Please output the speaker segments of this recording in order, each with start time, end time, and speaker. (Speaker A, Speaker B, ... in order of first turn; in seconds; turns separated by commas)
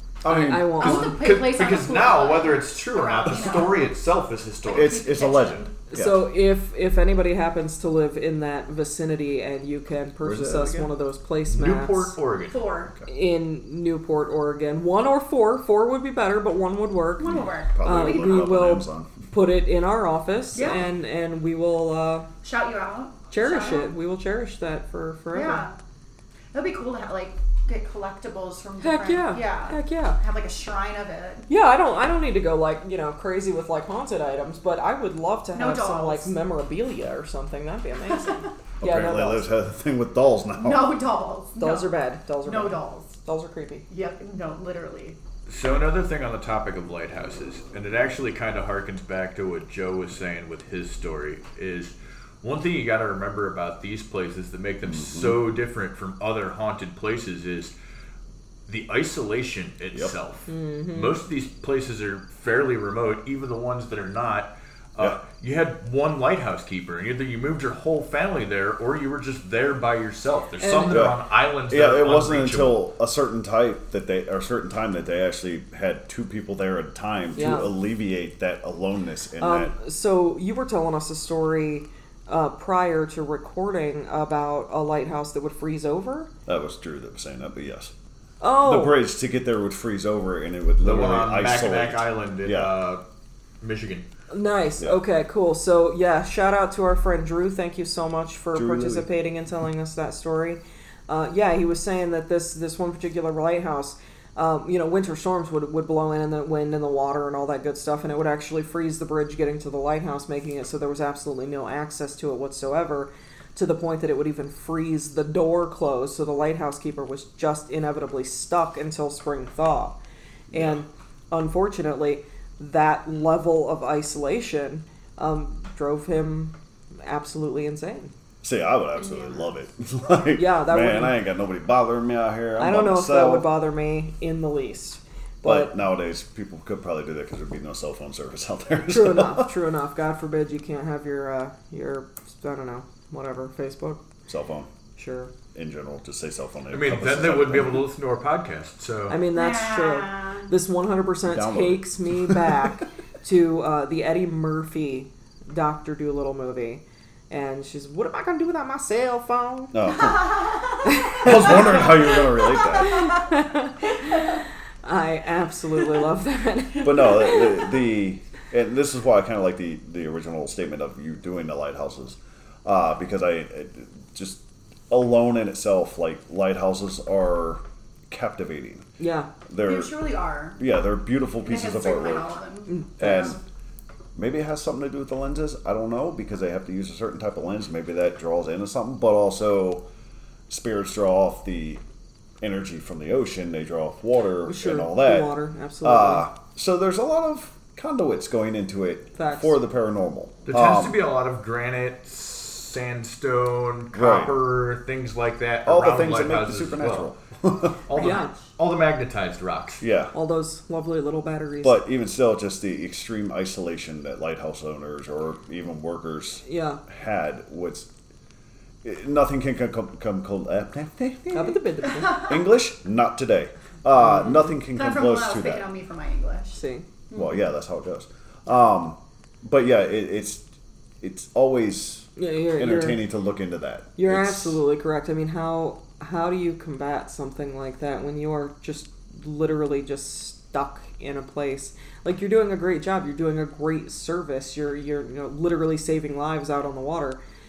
Speaker A: 0.2-1.1, Speaker B: 0.3-1.2, Speaker C: 0.8-3.9, Speaker D: 1.1-5.6, Speaker C: 4.6-5.7, Speaker A: 4.7-6.3, Speaker B: 5.9-12.1, Speaker A: 10.2-10.9, Speaker D: 11.5-12.6, Speaker C: 12.5-12.9, Speaker B: 13.1-22.3, Speaker C: 17.2-18.4, Speaker A: 17.3-19.1, Speaker C: 20.6-20.8, Speaker C: 22.4-23.9, Speaker B: 23.3-25.7, Speaker C: 25.3-25.7, Speaker C: 26.5-31.5, Speaker B: 28.8-30.2, Speaker B: 31.5-39.5, Speaker C: 35.5-36.3, Speaker C: 38.1-38.5, Speaker A: 38.8-41.0, Speaker C: 40.6-41.9, Speaker B: 41.6-43.9, Speaker C: 42.4-43.2, Speaker C: 43.9-45.2, Speaker D: 45.5-57.7, Speaker A: 54.9-55.4, Speaker D: 58.7-72.8, Speaker B: 60.5-61.2, Speaker B: 70.6-71.1, Speaker A: 70.9-79.7, Speaker B: 77.4-77.7, Speaker B: 79.4-86.3, Speaker A: 86.5-87.9, Speaker B: 88.4-89.0, Speaker A: 88.6-92.7, Speaker D: 90.8-93.0, Speaker D: 93.6-94.1, Speaker B: 94.3-120.0, Speaker A: 98.5-99.1, Speaker A: 120.5-120.8, Speaker B: 120.5-128.1, Speaker A: 128.4-133.5, Speaker B: 130.4-131.2, Speaker B: 132.6-135.8, Speaker A: 135.4-139.5, Speaker B: 138.9-144.0, Speaker A: 144.3-144.7, Speaker B: 145.0-145.3, Speaker A: 145.5-147.8, Speaker D: 146.7-149.2, Speaker B: 149.1-159.8, Speaker C: 149.3-150.5, Speaker A: 151.3-152.6, Speaker A: 159.7-163.2, Speaker B: 160.8-161.9, Speaker B: 162.8-167.5, Speaker A: 166.8-178.9, Speaker B: 179.0-179.3, Speaker A: 179.5-179.9, Speaker C: 179.6-180.7, Speaker A: 180.6-182.3, Speaker C: 181.4-183.4, Speaker B: 182.7-183.4, Speaker A: 183.0-183.4, Speaker A: 184.2-189.8, Speaker A: 190.5-191.8, Speaker A: 192.4-195.3, Speaker B: 194.5-196.3, Speaker A: 195.8-201.0, Speaker B: 199.2-199.6, Speaker D: 200.5-207.1, Speaker A: 203.9-204.4, Speaker A: 205.7-207.8, Speaker D: 207.9-209.8, Speaker B: 208.0-208.3, Speaker A: 209.8-210.1, Speaker B: 210.1-211.8, Speaker A: 211.6-217.9, Speaker B: 216.5-216.8, Speaker A: 218.8-225.7, Speaker B: 221.3-222.3, Speaker C: 222.0-222.3, Speaker C: 224.7-226.6, Speaker B: 226.5-226.8, Speaker A: 227.1-230.4, Speaker A: 231.0-234.6, Speaker B: 232.2-233.1, Speaker B: 234.0-247.2